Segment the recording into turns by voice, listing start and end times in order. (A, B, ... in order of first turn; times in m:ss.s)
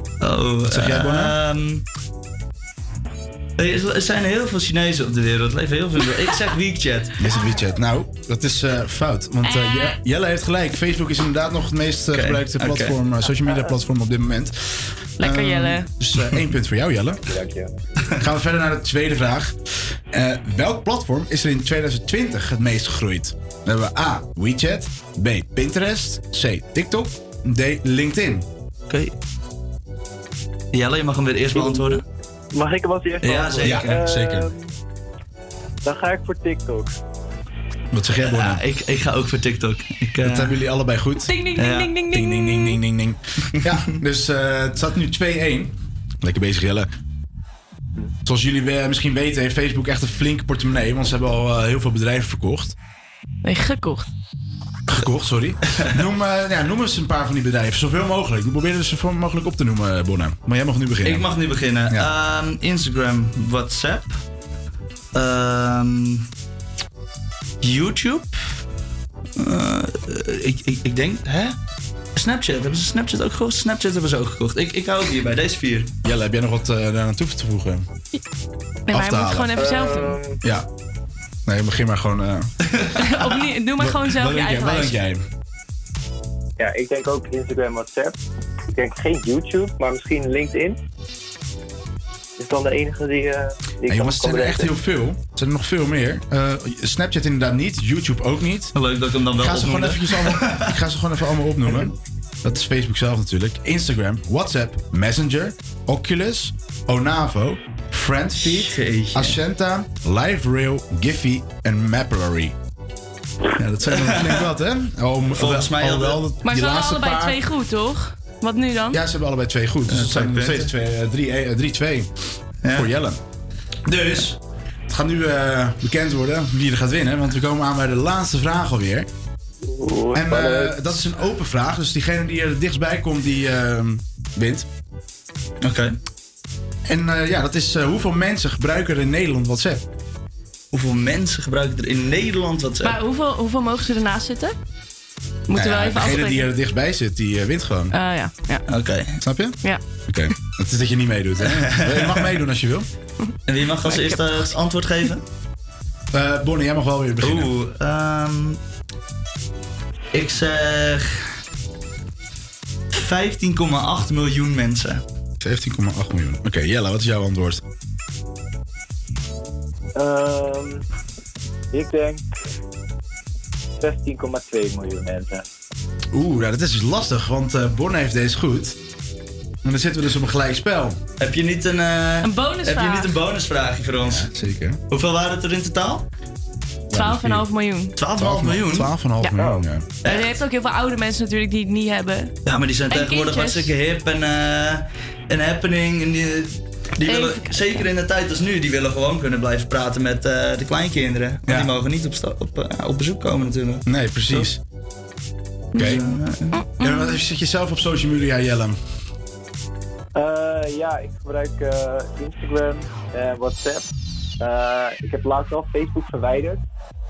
0:00.2-0:01.8 A
0:00.7-0:01.3 B
0:03.6-0:07.2 A
0:07.2-0:17.2 B
0:09.4-0:10.0 C
0:12.1-0:13.0 A
0:15.2-0:15.9 C
0:15.4-0:16.4 A
0:17.3-0:17.7 D
0:18.2-0:19.6 B
0:20.1-0:28.5 B
0:30.7-0:32.0 A
0:31.6-0:32.0 D
0:32.5-0:34.7 D
0:33.2-0:34.0 A
0:33.6-0:34.5 B
0:35.8-0:37.0 D
0:37.9-0:38.6 B
0:38.2-0:40.5 A
0:40.2-0:41.3 B
0:41.3-0:42.8 C
0:41.6-0:41.9 A
0:42.1-0:46.9 B
0:48.2-0:52.8 B
0:53.4-0:54.1 C
0:54.9-1:01.3 B
1:01.0-1:04.2 A
1:05.1-1:06.3 A
1:07.6-1:08.4 A
1:09.4-1:11.6 A
1:12.2-1:15.9 A
1:16.0-1:17.9 B
1:18.9-1:20.2 C
1:18.9-1:19.6 B
1:19.6-1:20.4 D
1:21.5-1:22.5 B
1:22.8-1:23.1 A
1:23.1-1:25.0 C
1:23.8-1:25.2 B
1:26.6-1:28.2 D
1:28.8-1:30.8 D
1:32.4-1:34.7 D
1:33.9-1:38.7 B
1:38.8-1:40.6 A
1:39.4-1:41.9 B
1:42.4-1:52.5 B
1:48.4-1:49.4 A
1:53.6-1:54.5 A
1:53.6-1:57.4 B
1:55.4-1:56.2 A
1:56.4-1:59.0 C
1:58.9-2:03.2 B
1:59.9-2:00.7 A
2:03.9-2:09.1 B
2:09.7-2:10.8 D
2:10.1-2:14.7 B
2:15.6-2:15.9 A
2:16.9-2:19.8 B
2:20.7-2:23.0 A
2:22.8-2:24.5 C
2:25.5-2:26.5 C
2:25.5-2:27.9 B
2:27.9-2:28.6 C
2:28.7-2:29.2 A
2:29.2-2:32.9 B
2:31.5-2:32.2 A
2:33.5-2:35.2 A
2:33.8-2:34.5 C
2:36.1-2:37.5 B
2:37.2-2:38.6 A
2:40.1-2:41.2 A
2:42.9-2:45.0 A
2:45.4-2:47.6 B
2:50.0-2:50.8 D
2:51.7-2:52.2 D
2:53.8-2:55.5 D
2:56.1-2:58.8 B
2:59.6-3:01.0 B
3:01.2-3:04.3 A
3:02.2-3:03.1 C
3:04.1-3:04.8 B
3:04.9-3:06.1 A
3:06.9-3:07.4 B
3:06.9-3:07.9 C
3:08.0-3:08.9 A
3:08.2-3:09.9 B
3:10.0-3:10.4 A
3:10.0-3:12.4 C
3:12.5-3:24.5 A
3:12.9-3:13.7 C
3:17.0-3:17.5 C
3:23.9-3:24.6 B
3:25.8-3:26.0 C
3:25.8-3:26.0 B
3:25.8-3:26.6 A
3:26.6-3:27.2 C
3:26.8-3:28.8 B
3:30.2-3:33.8 D
3:34.4-3:36.6 D